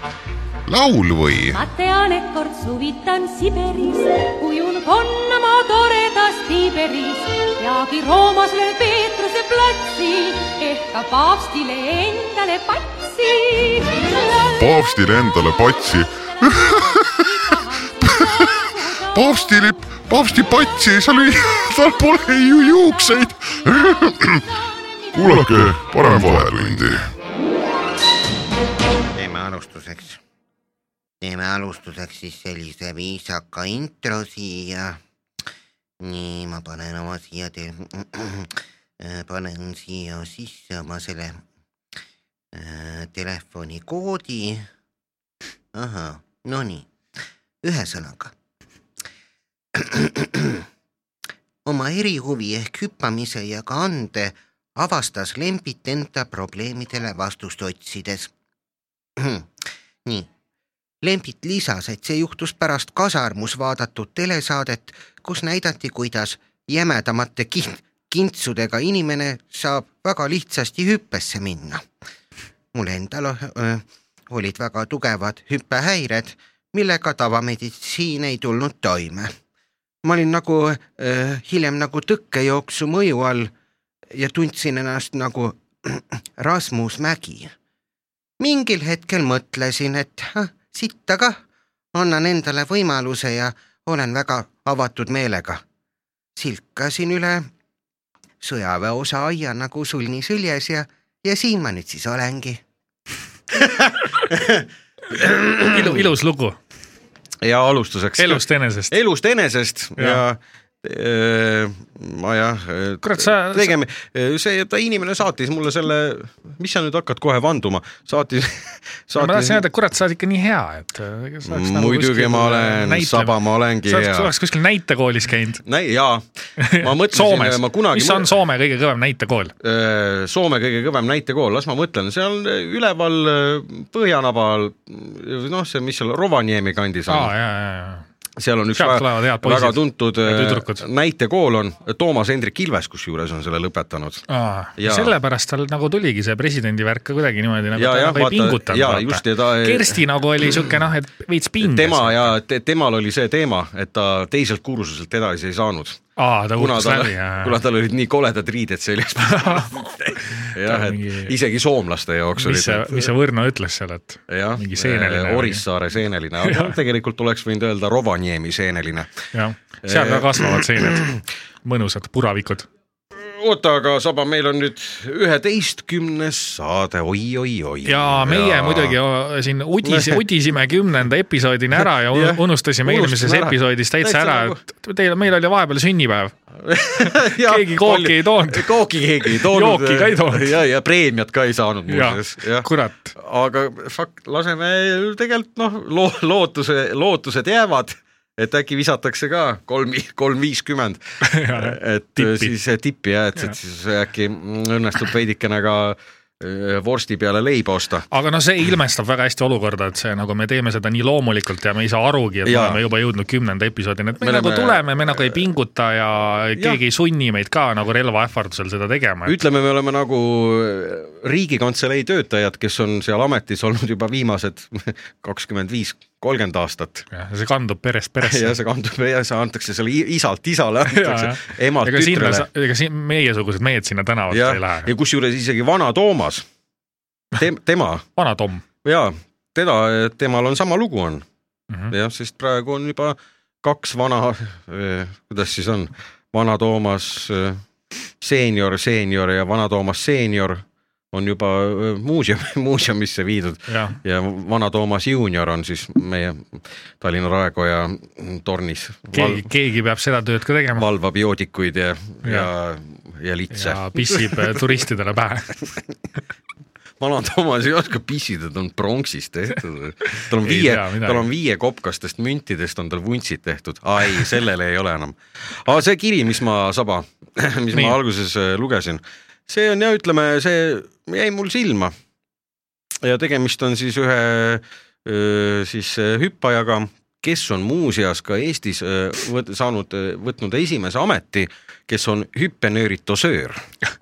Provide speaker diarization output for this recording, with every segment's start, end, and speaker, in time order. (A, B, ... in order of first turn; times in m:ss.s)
0:00.7-0:01.6 A
0:01.5-0:14.4 B
0:14.5-0:24.5 A
0:16.6-0:19.2 B
0:24.7-0:26.7 B
0:25.1-0:27.1 A
0:29.1-0:30.2 C
0:31.2-0:35.0 C
0:36.0-0:41.4 C
0:42.5-0:44.6 C
0:45.7-0:46.9 C
0:47.6-0:48.3 C
0:49.7-0:50.6 C
0:51.6-0:58.3 C
0:59.2-0:59.5 C
1:01.0-1:11.8 C
1:12.7-1:19.3 C
1:20.0-1:23.5 C
1:24.1-1:27.5 C
1:28.4-1:31.4 C
1:31.9-1:35.6 C
1:36.4-1:37.4 C
1:38.4-1:42.6 C
1:43.5-1:46.1 D
1:45.7-1:46.6 E
1:47.4-1:59.6 D
1:48.2-1:49.0 E
1:50.0-1:50.2 E
1:53.0-1:53.7 E
1:59.2-2:05.6 E
2:01.4-2:04.3 D
2:05.6-2:08.3 D
2:06.6-2:09.5 E
2:09.6-2:17.3 D
2:17.1-2:18.0 E
2:18.4-2:24.2 D
2:18.7-2:20.8 E
2:24.3-2:32.3 E
2:24.8-2:25.1 D
2:27.7-2:30.0 D
2:31.6-2:36.0 D
2:36.2-2:37.6 E
2:36.6-2:43.1 D
2:39.2-2:41.3 E
2:42.4-2:45.6 E
2:44.3-2:49.1 D
2:46.4-2:46.8 E
2:49.3-2:52.7 E
2:49.8-2:51.2 D
2:53.1-2:59.0 D
2:57.8-3:06.3 E
2:59.8-3:00.2 D
3:01.8-3:04.6 D
3:06.6-3:28.0 D
3:07.0-3:10.6 E
3:11.9-3:13.2 E
3:21.2-3:22.5 E
3:28.1-3:39.4 E
3:32.4-3:32.8 D
3:34.2-3:35.4 D
3:36.5-3:36.8 D
3:39.2-3:47.0 D
3:47.1-3:48.5 E
3:48.2-3:52.5 D
3:50.9-3:54.9 E
3:54.3-3:56.4 D
3:57.3-3:58.0 D
3:58.2-3:58.6 E
3:58.8-4:01.2 D
4:01.9-4:07.6 D
4:08.2-4:19.5 D
4:13.7-4:14.0 E
4:19.1-4:20.8 E
4:20.8-4:24.6 D
4:22.2-4:22.5 E
4:23.5-4:25.7 E
4:27.0-4:41.9 D
4:30.0-4:31.3 E
4:43.0-4:53.6 D